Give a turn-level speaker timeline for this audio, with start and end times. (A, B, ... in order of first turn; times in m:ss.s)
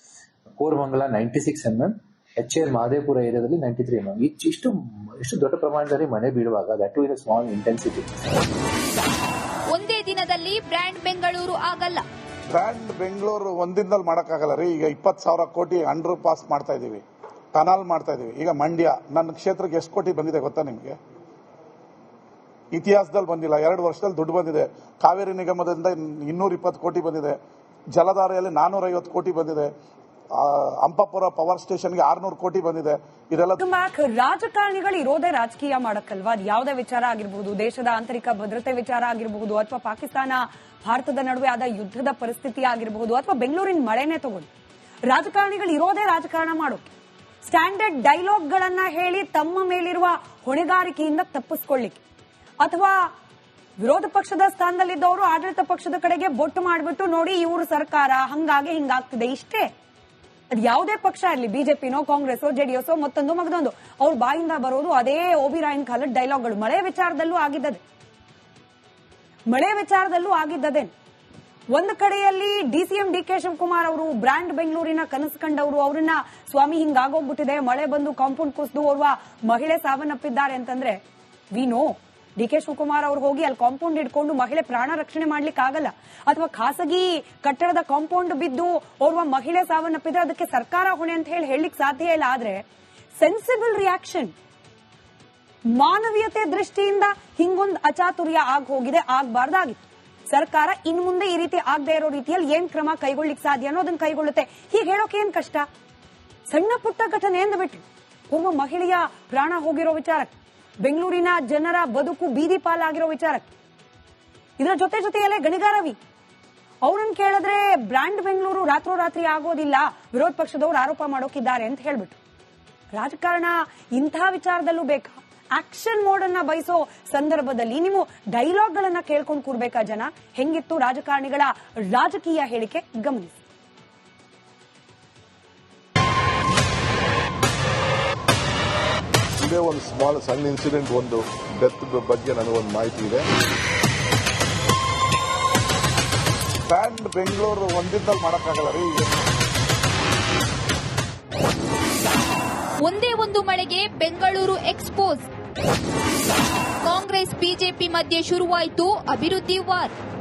0:00.6-0:08.0 A
0:09.7-0:12.0 B
0:12.5-0:17.0 C
0:17.5-0:21.0 C
0:22.7-0:27.4 C
0:27.9-0:29.7 C
0:30.4-0:33.6 C
0:33.6-0:44.5 D
0:45.1-0:46.9 D
0:47.4-0:52.0 D
0:52.6-0:53.1 D
0:53.8-0:59.7 D
1:00.5-1:07.8 D
1:09.5-1:10.9 D
1:11.7-1:21.0 D
1:21.5-1:32.6 D
1:33.2-1:34.3 D
1:35.7-1:45.7 D
1:46.5-1:53.4 D
1:54.6-1:56.0 D
1:56.8-2:02.2 D
2:02.9-2:13.4 D
2:19.4-2:23.2 E
2:26.7-2:29.1 C
2:32.8-2:35.3 B
2:36.8-2:39.9 B